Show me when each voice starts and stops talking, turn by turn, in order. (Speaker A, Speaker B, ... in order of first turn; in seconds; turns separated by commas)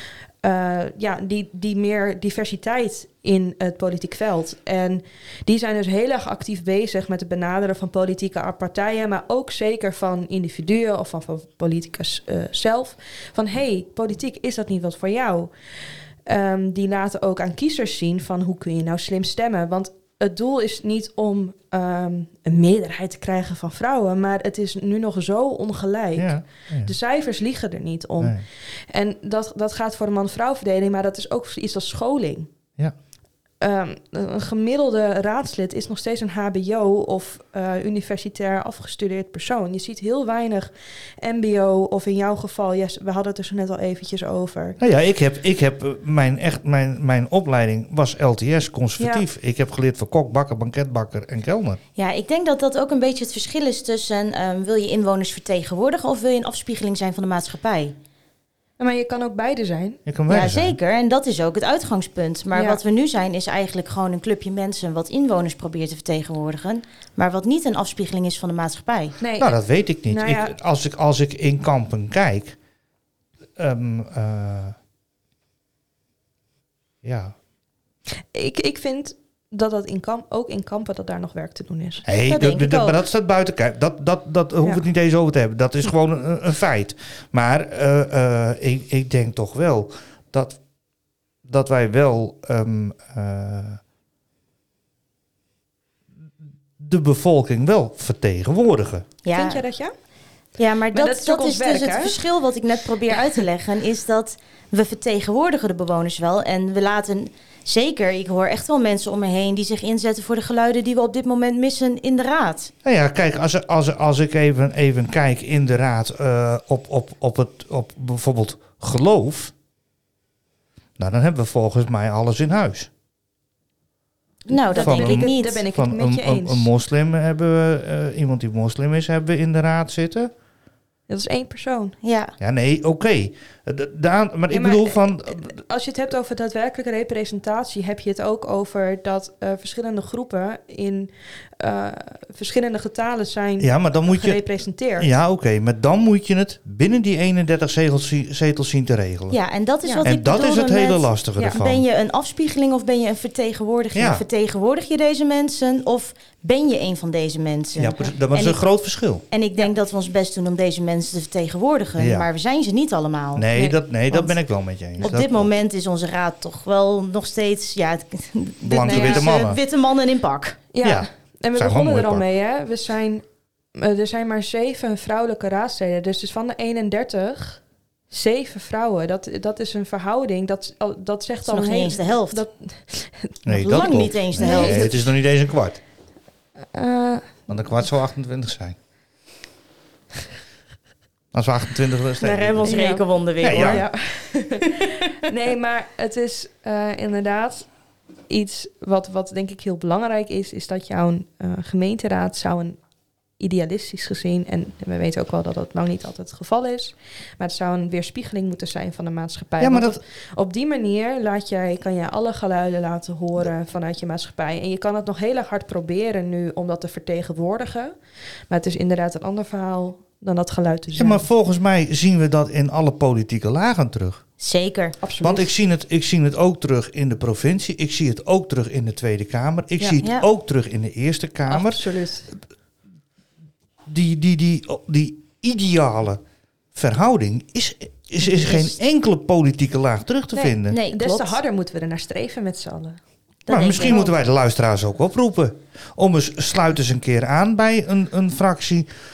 Speaker A: 0.4-15.5, Speaker A: 16.2-32.5, Speaker B: 26.1-26.9, Speaker B: 28.2-28.4, Speaker A: 33.6-44.8, Speaker B: 44.8-51.8, Speaker A: 49.0-49.2, Speaker C: 52.0-57.9, Speaker A: 58.8-60.0, Speaker B: 60.0-60.8, Speaker C: 60.3-69.2, Speaker A: 62.5-62.8, Speaker A: 69.2-70.5, Speaker B: 69.4-72.6, Speaker B: 73.6-74.7, Speaker B: 77.0-77.3, Speaker A: 78.3-82.0, Speaker B: 82.0-90.6, Speaker C: 82.2-83.0, Speaker B: 91.4-93.8, Speaker B: 96.8-99.1, Speaker C: 99.2-99.6, Speaker A: 99.3-99.9, Speaker C: 100.6-112.7, Speaker A: 100.9-102.2, Speaker B: 112.8-119.5, Speaker B: 121.0-122.9, Speaker C: 124.5-125.6, Speaker A: 124.5-126.7, Speaker B: 124.7-130.3, Speaker A: 131.1-131.9, Speaker C: 132.0-132.3, Speaker B: 132.4-135.6, Speaker A: 134.5-145.1, Speaker B: 143.6-144.4, Speaker B: 145.0-149.3, Speaker C: 149.3-158.7, Speaker A: 149.8-150.1, Speaker B: 150.0-151.8, Speaker A: 151.4-151.6, Speaker B: 153.9-154.2, Speaker B: 157.8-159.2, Speaker C: 159.3-163.5, Speaker B: 162.0-162.3, Speaker B: 163.3-165.5, Speaker A: 163.5-164.3, Speaker C: 165.0-170.6, Speaker A: 168.6-169.3, Speaker B: 168.6-169.6, Speaker A: 170.7-173.2, Speaker B: 170.8-172.2, Speaker A: 173.7-185.1, Speaker C: 181.4-182.4, Speaker B: 183.4-185.8, Speaker C: 183.5-185.0, Speaker A: 186.7-187.5, Speaker B: 187.5-188.8, Speaker B: 191.3-192.8, Speaker C: 192.2-193.8, Speaker A: 192.6-197.7, Speaker B: 193.4-193.8, Speaker A: 198.3-202.8, Speaker A: 203.4-217.9, Speaker B: 209.6-210.0, Speaker A: 218.5-221.2, Speaker B: 220.9-224.2, Speaker C: 224.4-225.0, Speaker A: 225.0-225.5, Speaker B: 225.2-231.8, Speaker C: 229.8-230.2, Speaker A: 231.5-232.3, Speaker B: 233.9-236.2, Speaker B: 236.7-240.8, Speaker C: 238.2-238.8, Speaker A: 240.3-243.0, Speaker C: 240.7-241.4, Speaker C: 243.4-244.1, Speaker B: 243.5-248.9, Speaker A: 243.8-244.1